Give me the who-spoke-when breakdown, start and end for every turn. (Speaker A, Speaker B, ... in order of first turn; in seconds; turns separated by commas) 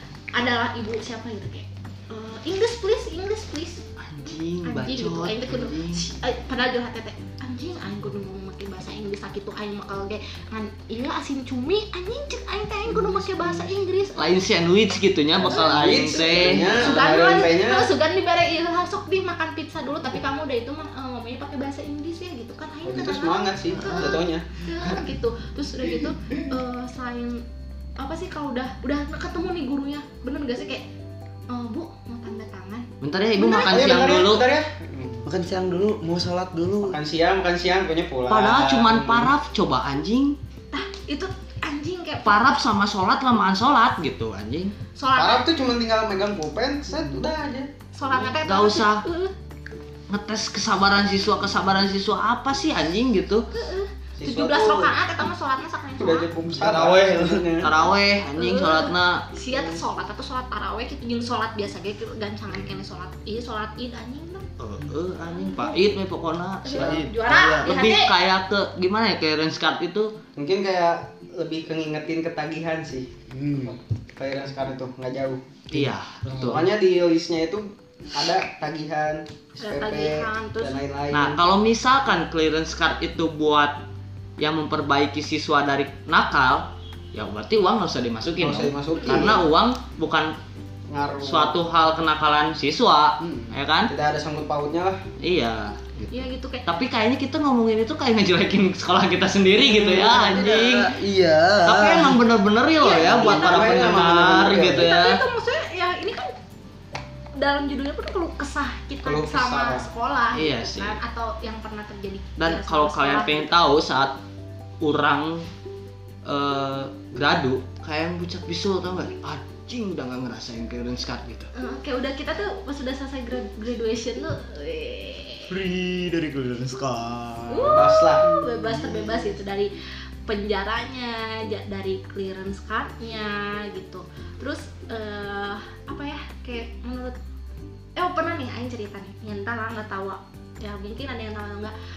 Speaker A: 0.3-3.8, Speaker B: 4.0-6.0, Speaker A: 4.7-14.3, Speaker B: 14.2-17.0, Speaker C: 15.4-17.9, Speaker A: 16.1-27.4, Speaker C: 22.8-24.5, Speaker A: 28.0-30.9, Speaker A: 31.5-32.9, Speaker B: 33.0-34.5, Speaker C: 33.4-35.2, Speaker A: 33.4-33.9, Speaker D: 35.2-37.0, Speaker C: 36.8-39.3, Speaker B: 38.3-40.4, Speaker A: 40.7-42.4, Speaker B: 42.2-44.8, Speaker A: 45.0-45.5, Speaker C: 45.1-47.7, Speaker A: 47.9-49.3, Speaker B: 48.3-49.1, Speaker B: 50.1-53.5, Speaker A: 53.5-56.3, Speaker C: 54.2-54.9, Speaker C: 56.0-57.9, Speaker D: 56.5-57.5, Speaker B: 57.6-59.3, Speaker A: 58.4-64.5, Speaker B: 64.6-67.0, Speaker A: 65.3-65.9, Speaker A: 66.6-68.1, Speaker D: 66.8-67.8, Speaker B: 67.6-70.1, Speaker C: 70.4-73.1, Speaker D: 73.3-73.8, Speaker C: 73.7-75.4, Speaker B: 75.7-76.7, Speaker D: 75.7-76.6, Speaker C: 76.3-81.4, Speaker A: 79.6-80.8, Speaker B: 81.1-83.8, Speaker B: 84.4-90.3, Speaker C: 88.4-89.5, Speaker C: 90.9-91.6, Speaker B: 91.2-93.9, Speaker C: 93.2-95.0, Speaker B: 95.2-100.9, Speaker A: 96.1-96.7, Speaker D: 99.7-102.2, Speaker C: 100.0-101.2, Speaker B: 101.6-105.2, Speaker A: 102.8-103.8, Speaker C: 102.8-104.9, Speaker A: 104.8-106.3, Speaker A: 107.4-113.5, Speaker C: 109.0-109.9, Speaker B: 110.3-111.0, Speaker B: 112.4-114.2, Speaker B: 114.8-115.5, Speaker B: 116.2-121.5, Speaker A: 121.5-125.5, Speaker D: 125.5-129.4, Speaker A: 127.5-129.7, Speaker C: 127.7-128.3, Speaker A: 130.3-137.2, Speaker A: 138.0-141.8